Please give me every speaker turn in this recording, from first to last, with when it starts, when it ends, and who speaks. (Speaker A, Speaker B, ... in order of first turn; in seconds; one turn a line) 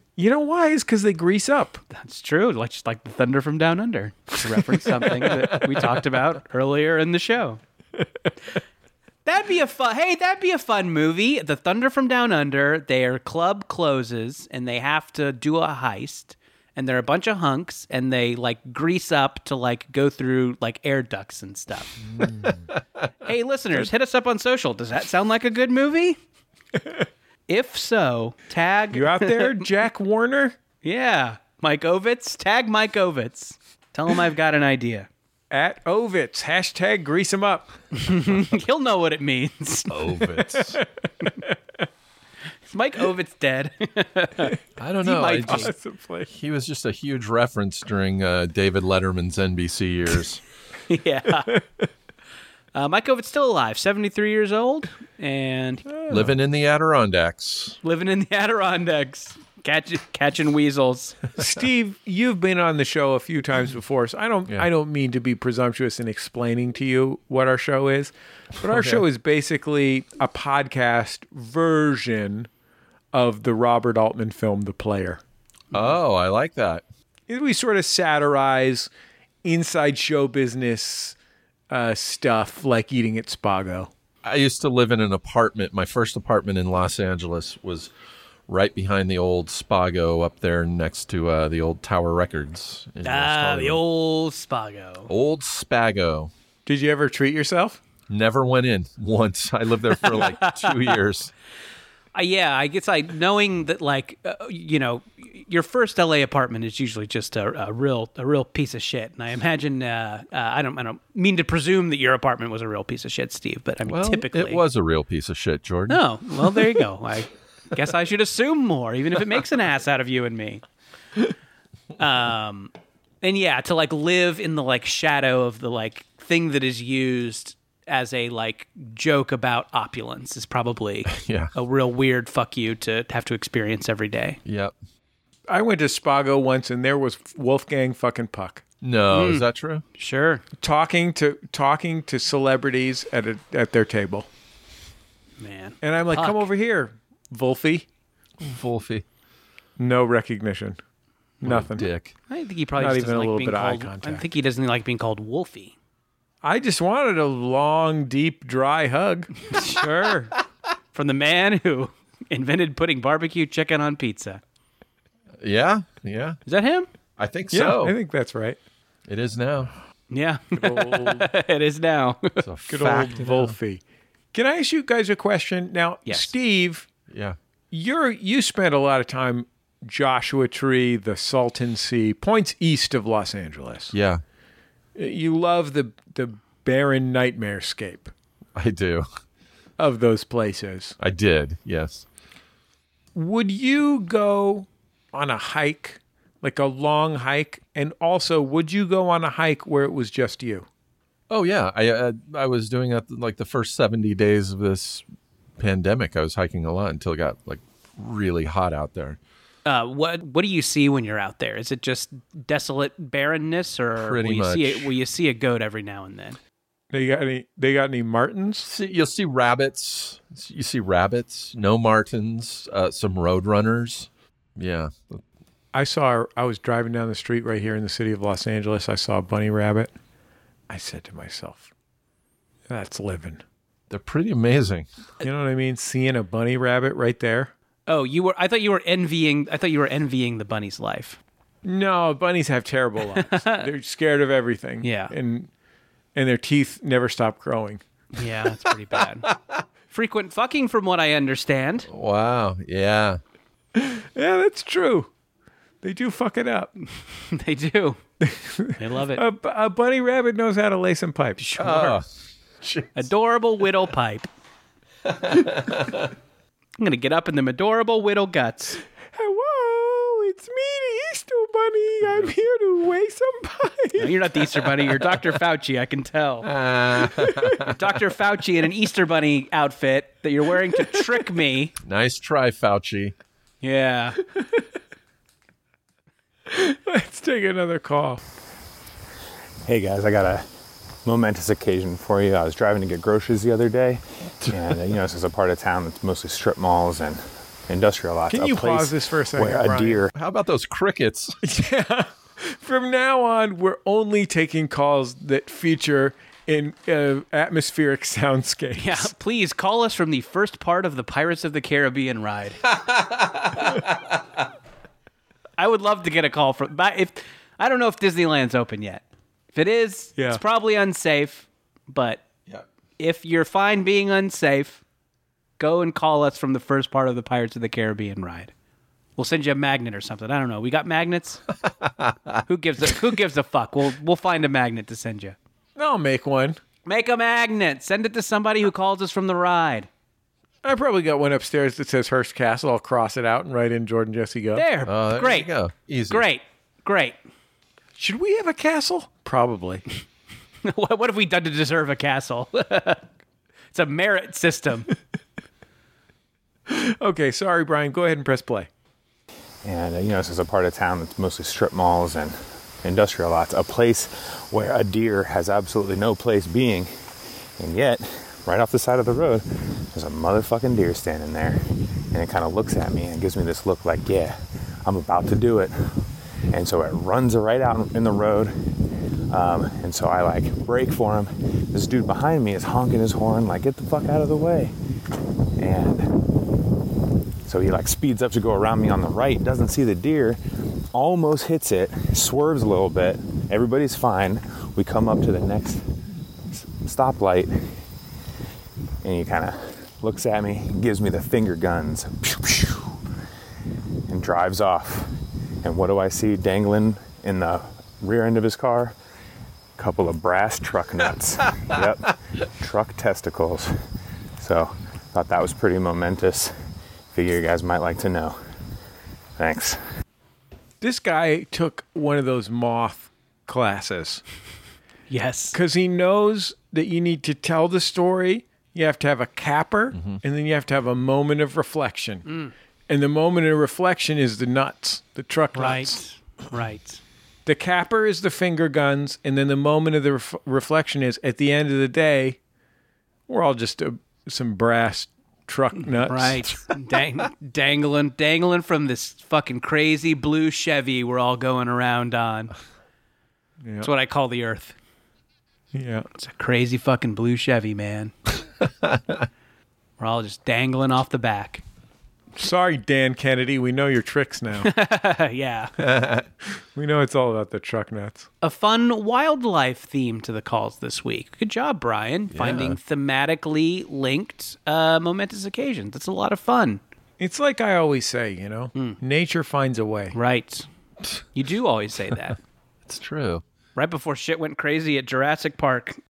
Speaker A: 0.2-1.8
Speaker B: 1.9-7.6
Speaker B: 9.2-22.0
Speaker A: 22.2-22.6
Speaker B: 23.2-26.2
Speaker B: 27.5-29.7
Speaker A: 28.9-30.6
Speaker B: 30.8-35.1
Speaker A: 35.5-37.7
Speaker B: 38.0-39.9
Speaker C: 39.9-40.8
Speaker A: 40.6-41.5
Speaker B: 42.7-45.7
Speaker C: 44.8-45.7
Speaker A: 45.5-46.3
Speaker C: 46.3-50.4
Speaker B: 50.9-51.5
Speaker B: 52.7-55.9
Speaker A: 55.9-56.4
Speaker C: 56.1-57.8
Speaker B: 57.8-61.2
Speaker A: 61.4-72.5
Speaker C: 68.7-69.0
Speaker A: 73.1-75.2
Speaker C: 75.7-76.8
Speaker A: 77.3-78.9
Speaker A: 79.4-81.2
Speaker A: 81.7-83.9
Speaker C: 84.2-87.9
Speaker C: 88.5-93.8
Speaker B: 93.0-95.1
Speaker C: 95.1-96.3
Speaker A: 96.7-97.8
Speaker C: 98.1-101.3
Speaker B: 100.0-100.9
Speaker B: 102.1-114.6
Speaker C: 113.9-116.0
Speaker B: 115.9-120.6
Speaker B: 122.0-134.4
Speaker C: 131.1-131.5
Speaker C: 134.4-134.7
Speaker A: 135.5-138.6
Speaker C: 138.8-139.8
Speaker B: 139.1-140.4
Speaker A: 140.6-144.3
Speaker B: 145.4-146.4
Speaker A: 145.8-147.9
Speaker C: 148.4-149.0
Speaker A: 149.8-150.8
Speaker A: 151.4-151.9
Speaker C: 151.4-152.1
Speaker B: 152.3-155.8
Speaker A: 152.8-154.2
Speaker A: 156.4-160.3
Speaker B: 159.5-159.8
Speaker B: 160.9-164.4
Speaker C: 165.4-166.4
Speaker B: 166.5-166.9
Speaker C: 167.2-167.9
Speaker A: 167.5-168.6
Speaker C: 169.1-169.7
Speaker B: 170.1-172.4
Speaker A: 170.5-171.3
Speaker C: 172.4-173.5
Speaker A: 172.7-173.8
Speaker A: 174.3-176.9
Speaker B: 176.1-176.3
Speaker C: 177.1-177.4
Speaker A: 177.7-183.9
Speaker C: 183.9-184.2
Speaker A: 185.0-188.1
Speaker C: 188.6-189.1
Speaker A: 189.8-191.0
Speaker C: 191.0-192.1
Speaker A: 193.1-200.7
Speaker C: 201.3-205.0
Speaker C: 205.6-209.2
Speaker B: 209.6-216.4
Speaker C: 214.0-214.9
Speaker A: 216.9-218.7
Speaker C: 218.7-225.2
Speaker A: 225.7-229.9
Speaker A: 230.7-231.7
Speaker A: 232.7-233.4
Speaker C: 233.9-234.9
Speaker A: 235.2-237.5
Speaker B: 237.9-241.2
Speaker A: 241.6-245.5
Speaker B: 243.1-243.7
Speaker B: 244.8-245.1
Speaker A: 246.1-247.8
Speaker B: 248.1-249.3
Speaker B: 249.9-251.9
Speaker C: 251.9-253.2
Speaker A: 253.8-255.1
Speaker A: 255.8-256.7
Speaker B: 257.1-258.0
Speaker A: 258.2-261.7
Speaker B: 258.8-259.2
Speaker B: 261.4-262.0
Speaker C: 261.6-262.1
Speaker C: 262.6-262.9
Speaker B: 263.0-264.3
Speaker C: 265.3-266.1
Speaker B: 266.8-268.8
Speaker A: 269.1-274.9
Speaker B: 274.0-276.5
Speaker C: 276.4-277.7
Speaker A: 277.2-277.7
Speaker B: 277.6-281.7
Speaker C: 281.8-283.1
Speaker B: 283.6-284.2
Speaker A: 284.4-284.6
Speaker A: 286.5-288.2
Speaker D: 289.7-290.5
Speaker D: 291.0-300.1
Speaker A: 298.3-300.0
Speaker C: 300.1-301.4
Speaker A: 301.4-309.1
Speaker B: 308.8-312.6
Speaker C: 312.7-313.8
Speaker B: 315.6-322.2
Speaker B: 323.0-324.8
Speaker B: 325.6-328.5
Speaker B: 329.2-331.4
Speaker B: 332.5-335.4
Speaker A: 335.8-336.6
Speaker B: 336.9-339.9
Speaker A: 340.6-344.7
Speaker B: 344.6-345.5
Speaker C: 344.9-346.2
Speaker B: 346.1-347.2
Speaker A: 348.0-349.8
Speaker B: 350.6-353.1
Speaker B: 353.7-354.9
Speaker A: 356.7-358.7
Speaker D: 359.6-366.9
Speaker D: 367.6-375.7
Speaker D: 376.5-378.5
Speaker D: 379.3-384.7
Speaker D: 385.6-386.1
Speaker D: 387.4-390.4
Speaker D: 390.9-395.8
Speaker D: 396.5-397.7
Speaker D: 399.0-402.9
Speaker D: 404.1-405.1
Speaker D: 405.6-408.9
Speaker D: 409.8-413.8
Speaker D: 414.4-416.5
Speaker D: 417.1-418.4
Speaker D: 419.4-419.8
Speaker A: 420.8-424.2
Speaker B: 425.1-425.6
Speaker A: 425.5-432.3
Speaker C: 429.9-430.2
Speaker B: 432.3-432.5
Speaker A: 432.9-436.0
Speaker B: 435.6-437.0
Speaker A: 437.5-442.4
Speaker A: 443.3-446.6
Speaker B: 446.0-452.5
Speaker A: 453.6-453.9
Speaker B: 453.8-454.8
Speaker A: 455.7-456.1
Speaker B: 456.1-458.1
Speaker B: 460.0-461.6
Speaker A: 462.4-464.7
Speaker B: 464.6-465.7
Speaker C: 465.8-466.2
Speaker A: 466.7-468.3
Speaker B: 468.4-476.8
Speaker C: 472.3-472.8
Speaker A: 477.2-480.2
Speaker B: 480.1-480.7
Speaker B: 481.3-482.4
Speaker C: 482.9-483.4
Speaker B: 483.8-486.0